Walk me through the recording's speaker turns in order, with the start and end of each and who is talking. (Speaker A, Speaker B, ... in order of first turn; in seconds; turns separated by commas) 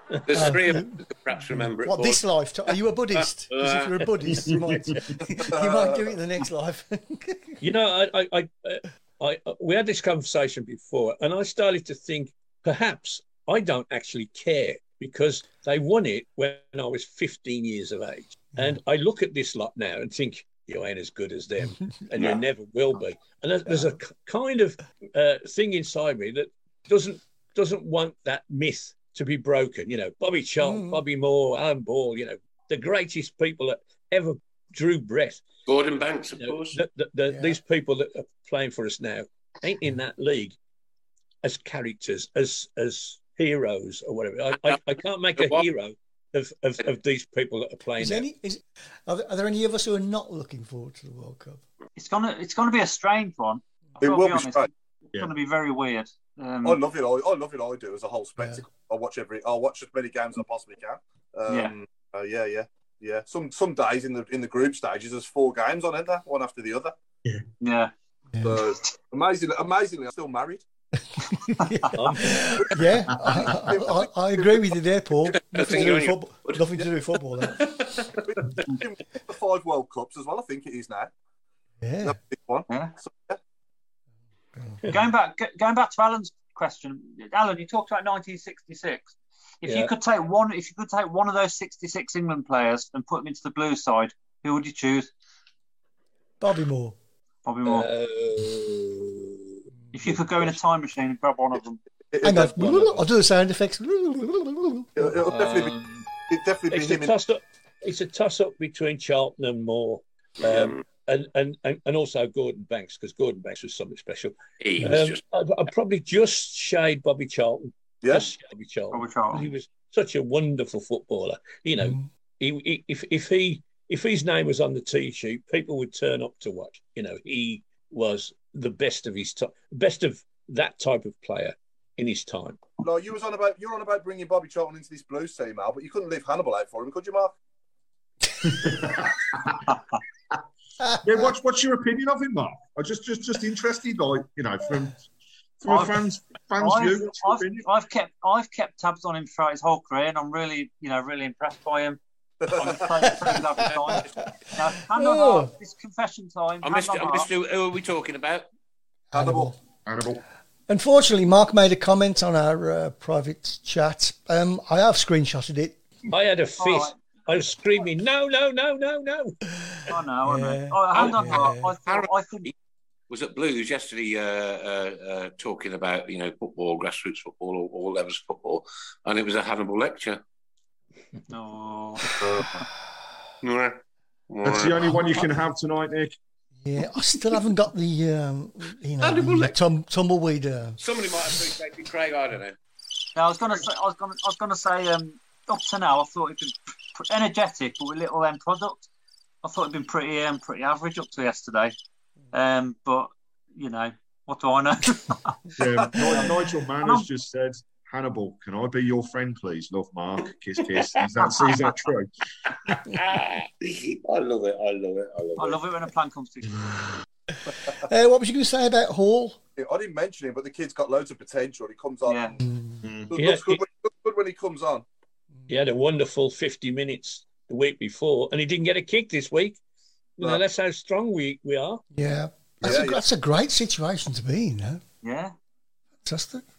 Speaker A: 0.3-4.1, Speaker B: 0.3-1.0, Speaker B: 1.6-7.5, Speaker C: 4.3-5.0, Speaker D: 5.2-6.2, Speaker E: 7.6-35.4, Speaker B: 30.6-31.0, Speaker A: 35.6-36.8, Speaker E: 36.4-40.5, Speaker B: 37.3-37.6, Speaker E: 41.4-48.3, Speaker A: 45.4-45.6, Speaker B: 48.0-51.6, Speaker F: 52.0-56.8, Speaker D: 54.0-54.7, Speaker D: 56.6-66.9, Speaker F: 61.5-61.7, Speaker F: 67.6-67.9, Speaker B: 68.3-68.6, Speaker D: 68.4-70.6, Speaker B: 71.2-77.8, Speaker F: 71.6-72.1, Speaker E: 71.9-72.4, Speaker D: 72.6-74.7, Speaker A: 75.3-76.6, Speaker A: 77.4-78.2, Speaker D: 78.3-81.1, Speaker B: 81.8-82.2, Speaker D: 82.0-83.4, Speaker F: 82.7-82.9, Speaker F: 84.9-95.1, Speaker E: 89.6-89.9, Speaker B: 96.4-97.0, Speaker F: 97.4-97.9, Speaker E: 97.6-99.4, Speaker F: 99.9-101.8, Speaker D: 102.1-102.9, Speaker B: 102.2-105.0, Speaker D: 105.0-105.7, Speaker E: 105.2-106.1, Speaker D: 106.3-107.1, Speaker E: 106.7-132.6, Speaker A: 110.4-110.8, Speaker A: 114.6-115.2, Speaker D: 118.0-118.3, Speaker F: 118.9-119.4, Speaker D: 132.8-137.3, Speaker C: 138.4-139.6, Speaker C: 141.0-145.0, Speaker C: 145.6-147.7, Speaker F: 145.7-146.0, Speaker F: 146.6-152.0, Speaker D: 152.5-152.8, Speaker F: 152.5-157.3, Speaker B: 154.9-155.5, Speaker A: 156.6-158.4, Speaker B: 159.1-159.6, Speaker D: 159.1-159.5, Speaker C: 159.8-160.2, Speaker B: 160.7-165.8, Speaker E: 166.1-169.4, Speaker F: 166.6-166.9, Speaker F: 169.9-172.5, Speaker B: 170.2-171.7, Speaker A: 170.9-171.3, Speaker A: 171.8-172.5, Speaker A: 173.1-180.2, Speaker F: 181.3-182.6, Speaker A: 183.4-184.9, Speaker C: 184.4-186.1, Speaker B: 186.6-190.8, Speaker A: 189.0-189.6, Speaker A: 190.8-192.6, Speaker F: 193.1-198.9, Speaker F: 199.4-201.7, Speaker F: 202.3-205.3, Speaker C: 205.6-212.1, Speaker F: 205.9-207.1, Speaker A: 212.7-215.6, Speaker F: 215.4-216.7, Speaker B: 217.7-219.4, Speaker D: 219.6-222.4, Speaker F: 222.1-222.3, Speaker B: 222.4-222.8, Speaker C: 222.8-223.1, Speaker D: 223.1-224.8, Speaker E: 223.1-223.6, Speaker E: 225.5-229.6, Speaker E: 230.2-231.8, Speaker B: 231.9-234.8, Speaker D: 232.6-233.0, Speaker F: 235.0-235.3, Speaker B: 236.0-236.4